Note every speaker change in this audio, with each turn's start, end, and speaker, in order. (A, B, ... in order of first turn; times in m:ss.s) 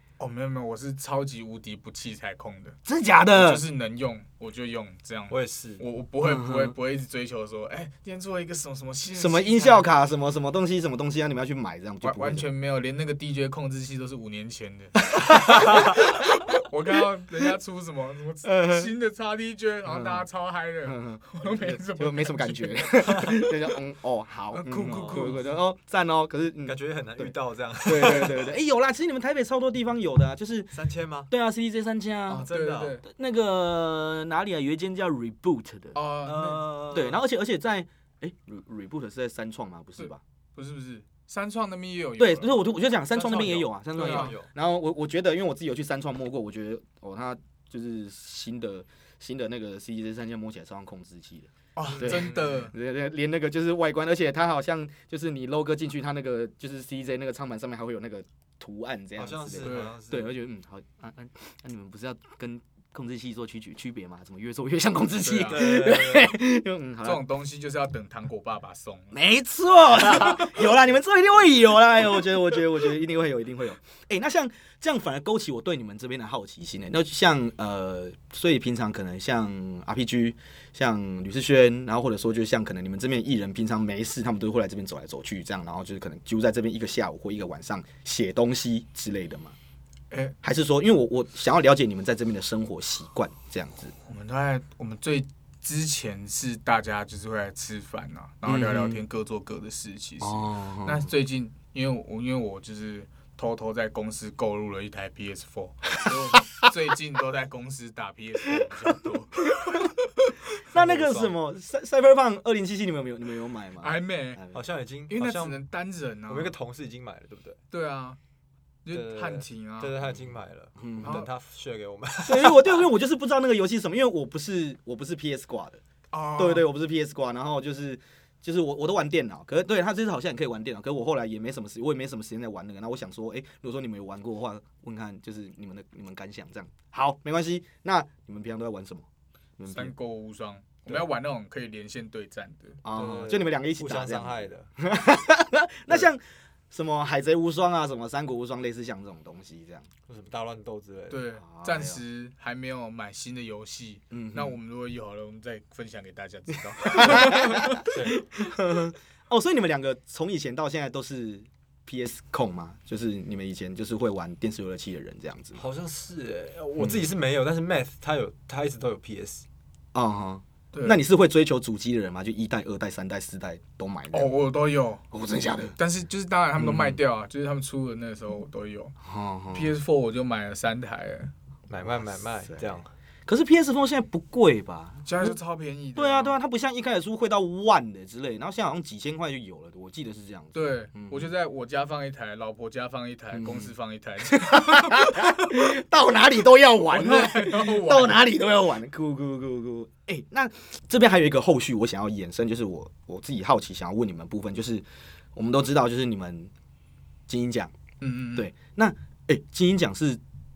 0:00.2-0:02.8 A
0:02.9-0:03.6 B
0:03.3-0:09.9 A
0:05.3-0:05.8 C
0:06.2-0:06.8 B
0:09.2-0:12.5 B
0:12.0-0:23.5 A
0:15.1-0:16.2 B
0:18.4-0:18.9 B
0:19.9-0:20.3 B
0:20.8-0:27.3 B
0:24.5-0:25.6 A
0:24.9-0:25.4 C
0:26.7-0:28.5 C
0:27.8-0:30.8 B
0:30.7-0:31.3 C
0:31.3-0:32.5 B
0:32.3-0:33.0 A
0:32.3-0:33.0 C
0:33.0-0:36.0 B
0:35.9-0:36.7 A
0:36.2-0:37.2 C
0:36.9-0:40.2 B
0:40.0-0:42.6 A
0:42.2-1:07.2 B
0:43.2-0:44.5 C
0:43.2-0:43.5 A
0:44.0-0:44.3 A
0:51.8-0:52.7 A
0:52.0-0:52.6 C
0:59.2-1:00.3 C
0:59.6-0:59.9 A
1:05.2-1:05.7 A
1:05.5-1:06.3 C
1:07.0-1:09.2 A
1:09.1-1:29.6 B
1:30.1-1:30.4 A
1:30.4-1:33.9 B
1:34.0-1:50.3 A
1:38.4-1:39.0 B
1:40.2-1:41.1 B
1:50.7-1:54.6 B
1:50.7-1:51.4 C
1:53.8-1:54.4 A
1:54.5-1:55.6 C
1:55.1-1:56.6 A
1:56.3-1:57.6 C
1:57.7-1:58.2 A
1:58.8-2:00.0 A
1:58.9-2:02.9 C
2:00.8-2:01.2 B
2:01.0-2:01.3 A
2:02.2-2:05.8 B
2:06.1-2:06.7 A
2:06.4-2:19.0 B
2:19.6-2:19.9 B
2:19.7-2:22.8 A
2:22.8-2:29.9 B
2:22.9-2:24.7 C
2:30.1-2:31.3 C
2:31.1-2:37.9 A
2:31.4-2:32.0 B
2:34.1-2:34.6 B
2:36.8-2:45.6 B
2:37.9-2:38.2 C
2:45.6-2:49.4 C
2:49.9-2:54.3 B
2:50.7-2:51.0 A
2:54.1-2:55.0 A
2:55.1-2:55.8 B
2:55.8-2:59.0 A
2:56.6-2:57.0 B
2:59.0-2:59.8 B
2:59.5-3:01.3 A
3:01.7-3:02.9 C
3:01.8-3:05.4 B
3:05.0-3:06.4 A
3:06.0-3:11.3 B
3:10.5-3:15.7 A
3:13.3-3:13.7 B
3:14.2-3:26.5 B
3:16.9-3:18.2 A
3:27.3-3:27.7 B
3:28.0-3:28.5 A
3:28.4-3:30.2 B